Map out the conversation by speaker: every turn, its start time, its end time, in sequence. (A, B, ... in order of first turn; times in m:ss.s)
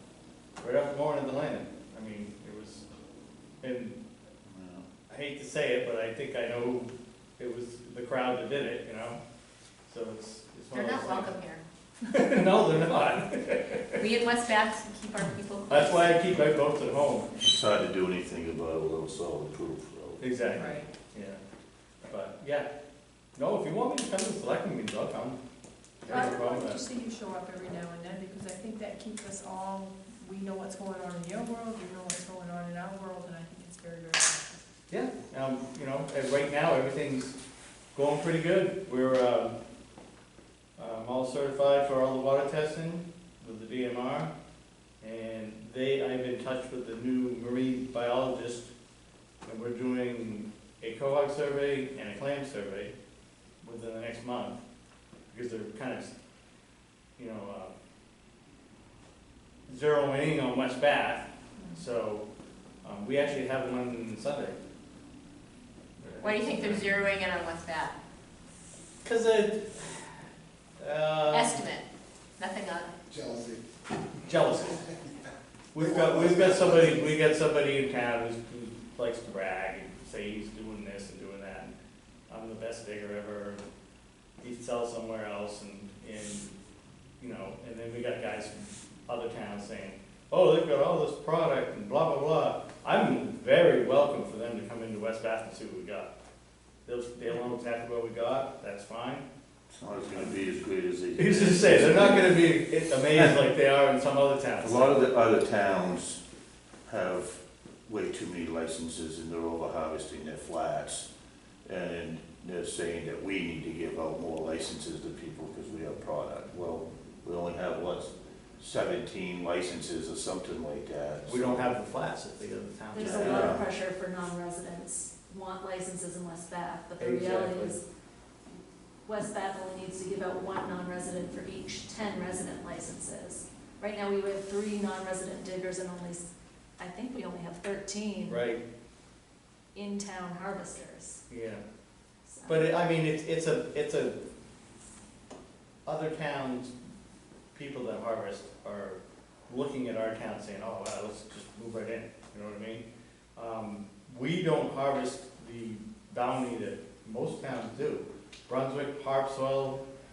0:00.6-0:02.8 A
0:03.6-0:04.0 A
0:04.4-0:04.9 B
0:05.1-0:09.2 A
0:09.9-0:11.3 A
0:10.7-0:11.6 C
0:12.0-0:14.1 A
0:14.0-0:16.2 C
0:15.7-0:17.3 A
0:17.4-0:20.2 B
0:20.2-0:21.4 A
0:22.1-0:22.7 A
0:23.4-0:25.4 A
0:26.1-0:26.8 A
0:26.1-0:34.6 D
0:34.9-0:37.4 A
0:37.9-0:39.5 A
0:40.8-0:44.3 A
0:45.0-0:48.7 A
0:49.4-0:52.9 A
0:53.6-0:54.6 A
0:55.3-0:56.1 A
0:57.2-0:57.7 A
0:59.7-1:02.2 A
1:02.8-1:04.6 A
1:06.0-1:07.0 A
1:06.2-1:07.9 C
1:09.0-1:10.1 A
1:10.8-1:11.7 A
1:11.3-1:11.8 C
1:12.4-1:12.9 C
1:13.1-1:13.6 E
1:14.2-1:14.8 A
1:15.7-1:21.7 A
1:15.8-1:17.2 E
1:22.3-1:23.6 A
1:24.4-1:26.5 A
1:27.2-1:36.1 A
1:36.8-1:39.2 A
1:39.7-1:42.5 B
1:41.2-1:45.0 A
1:44.6-1:46.2 B
1:46.9-1:51.1 B
1:51.6-2:01.7 B
2:01.3-2:03.6 A
2:02.9-2:07.8 F
2:03.0-2:03.6 B
2:07.0-2:07.8 A
2:09.0-2:18.4 F
2:18.2-2:18.6 A
2:19.7-2:21.2 F
2:21.3-2:21.6 A
2:22.3-2:22.7 F
2:22.4-2:24.2 A
2:25.8-2:26.7 A
2:27.5-2:32.8 A
2:33.4-2:39.8 A